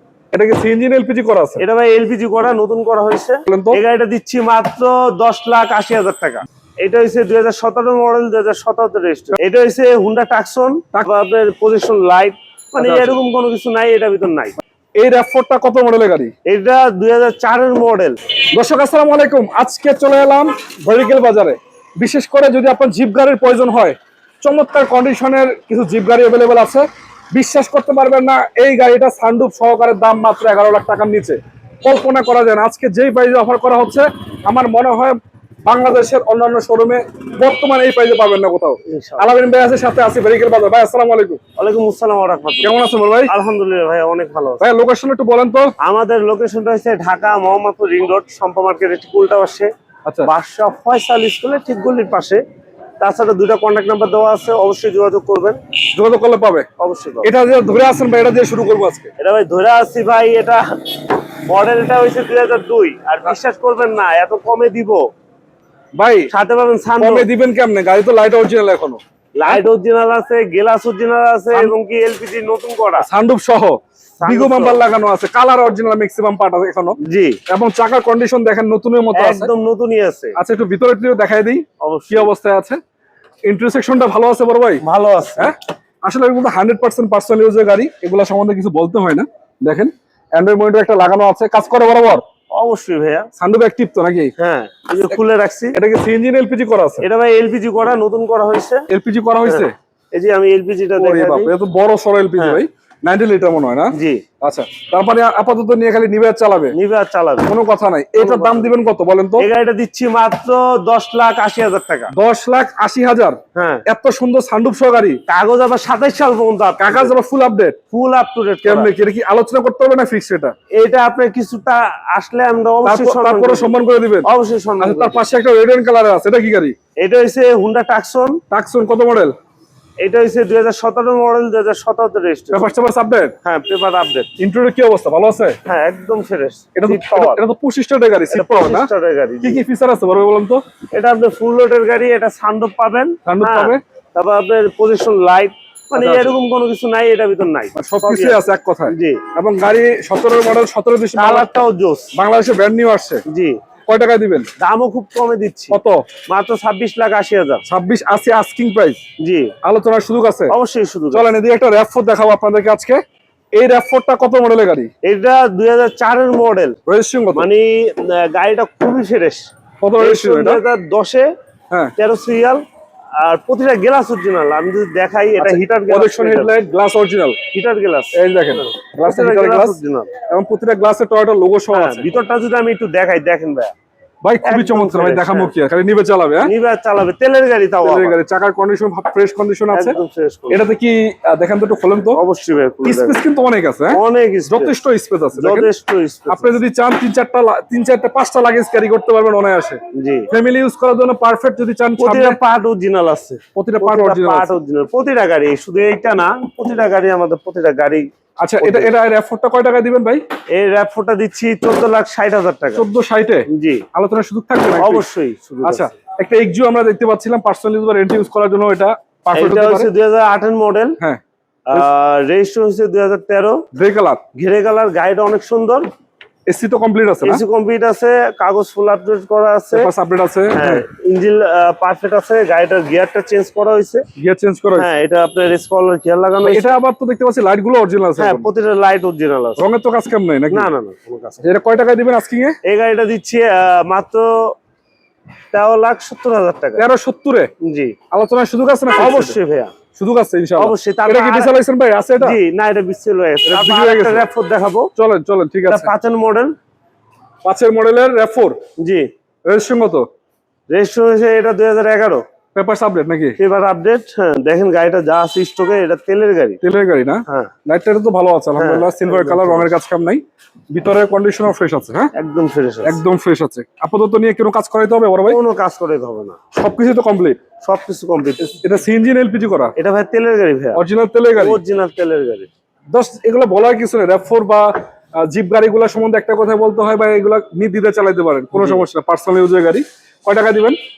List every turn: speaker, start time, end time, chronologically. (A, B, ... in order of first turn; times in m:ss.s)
0:00.3-0:01.6 A
0:01.6-0:14.5 B
0:03.5-0:03.8 A
0:12.8-0:13.2 A
0:15.0-0:16.3 A
0:16.5-0:18.2 B
0:18.5-0:41.4 A
0:38.9-0:39.3 B
0:41.6-0:42.8 B
0:42.6-0:43.3 A
0:43.3-0:44.6 B
0:44.6-0:45.7 A
0:45.8-0:49.7 B
0:50.2-0:52.4 B
0:53.0-0:55.6 B
0:55.9-0:56.7 A
0:56.8-0:57.3 B
0:57.2-0:59.1 A
0:59.2-1:05.0 B
1:06.0-1:06.3 A
1:06.3-1:07.3 B
1:07.0-1:09.6 A
1:09.4-1:13.1 B
1:13.0-1:17.0 A
1:14.2-1:14.8 B
1:17.0-1:17.4 B
1:17.5-1:19.5 A
1:19.2-1:20.4 B
1:20.4-1:22.8 A
1:21.8-1:22.3 B
1:23.5-1:24.8 A
1:24.8-1:25.5 B
1:25.4-1:32.2 A
1:32.6-1:33.3 B
1:33.4-1:34.3 A
1:34.4-1:35.8 B
1:35.8-1:37.0 A
1:37.0-1:38.8 B
1:38.9-1:39.7 A
1:39.4-1:41.5 B
1:41.0-1:46.8 A
1:43.9-1:44.2 B
1:46.7-1:47.5 B
1:47.5-1:49.5 A
1:48.2-1:48.7 B
1:49.4-1:52.1 B
1:52.1-1:55.2 A
1:53.6-1:53.8 B
1:55.3-1:57.1 B
1:56.8-1:57.8 A
1:57.9-1:58.9 B
1:58.6-2:00.5 A
2:00.8-2:05.2 B
2:02.9-2:04.3 A
2:04.8-2:06.8 A
2:07.0-2:08.4 B
2:08.5-2:09.3 A
2:10.0-2:12.7 B
2:12.5-2:13.3 A
2:13.4-2:14.3 B
2:14.4-2:15.6 A
2:15.7-2:17.4 B
2:16.8-2:18.9 A
2:18.3-2:19.6 B
2:19.4-2:20.6 A
2:20.9-2:29.2 B
2:23.3-2:23.8 A
2:26.0-2:26.4 A
2:27.8-2:31.5 A
2:31.2-2:32.1 B
2:32.2-2:33.2 A
2:33.3-2:33.6 B
2:33.9-2:34.5 A
2:34.6-2:37.6 B
2:35.7-2:36.0 A
2:37.7-2:39.0 A
2:39.2-2:39.5 B
2:39.6-2:40.5 A
2:40.5-2:41.3 B
2:41.1-2:43.0 A
2:43.6-2:44.9 A
2:45.0-2:46.8 B
2:46.9-2:47.5 A
2:47.3-2:49.5 B
2:49.8-2:50.6 A
2:50.0-2:51.3 B
2:52.0-2:52.6 B
2:53.2-2:56.5 B
2:55.4-2:57.4 A
2:57.5-3:00.1 B
2:58.2-2:59.8 A
3:00.3-3:02.2 A
3:01.7-3:03.7 B
3:04.2-3:06.5 A
3:04.4-3:05.5 B
3:06.4-3:08.2 B
3:07.8-3:10.0 A
3:09.7-3:10.6 B
3:10.5-3:12.2 A
3:12.2-3:13.2 B
3:12.8-3:15.7 A
3:13.9-3:14.7 B
3:15.4-3:16.6 B
3:16.3-3:19.8 A
3:20.0-3:20.3 B
3:20.3-3:22.4 A
3:22.0-3:28.1 B
3:23.6-3:24.5 A
3:28.4-3:30.2 A
3:28.6-3:28.9 B
3:30.6-3:32.9 B
3:32.8-3:35.1 A
3:33.5-3:33.8 B
3:34.8-3:35.9 B
3:35.6-3:39.9 A
3:39.3-3:41.0 B
3:41.7-3:43.6 B
3:43.8-3:44.2 A
3:44.4-3:45.9 B
3:46.5-3:47.4 A
3:47.2-3:49.9 B
3:49.7-3:50.8 A
3:50.5-3:54.0 B
3:54.2-3:54.9 A
3:54.8-3:56.7 B
3:56.4-3:58.5 A
3:58.2-3:59.6 B
3:59.6-4:00.7 A
4:00.5-4:01.4 B
4:01.4-4:02.6 A
4:02.6-4:04.6 B
4:05.5-4:06.8 B
4:06.8-4:07.5 A
4:07.6-4:08.0 B
4:08.1-4:09.4 A
4:09.0-4:09.7 B
4:10.0-4:12.4 A
4:10.6-4:11.5 B
4:12.2-4:14.9 B
4:13.4-4:14.3 A
4:15.0-4:15.9 A
4:15.7-4:16.5 B
4:17.4-4:18.6 A
4:18.8-4:19.1 B
4:19.5-4:20.1 A
4:20.7-4:22.2 B
4:22.6-4:23.4 A
4:23.4-4:26.6 B
4:26.6-4:32.1 A
4:27.3-4:27.5 B
4:28.6-4:29.7 B
4:32.1-4:33.0 B
4:32.8-4:35.4 A
4:35.3-4:36.4 B
4:36.6-4:37.4 A
4:37.6-4:38.5 B
4:38.4-4:39.7 A
4:39.8-4:40.8 B
4:40.8-4:41.6 A
4:41.3-4:42.5 B
4:42.9-4:44.7 A
4:45.2-4:50.8 A
4:48.6-4:48.8 B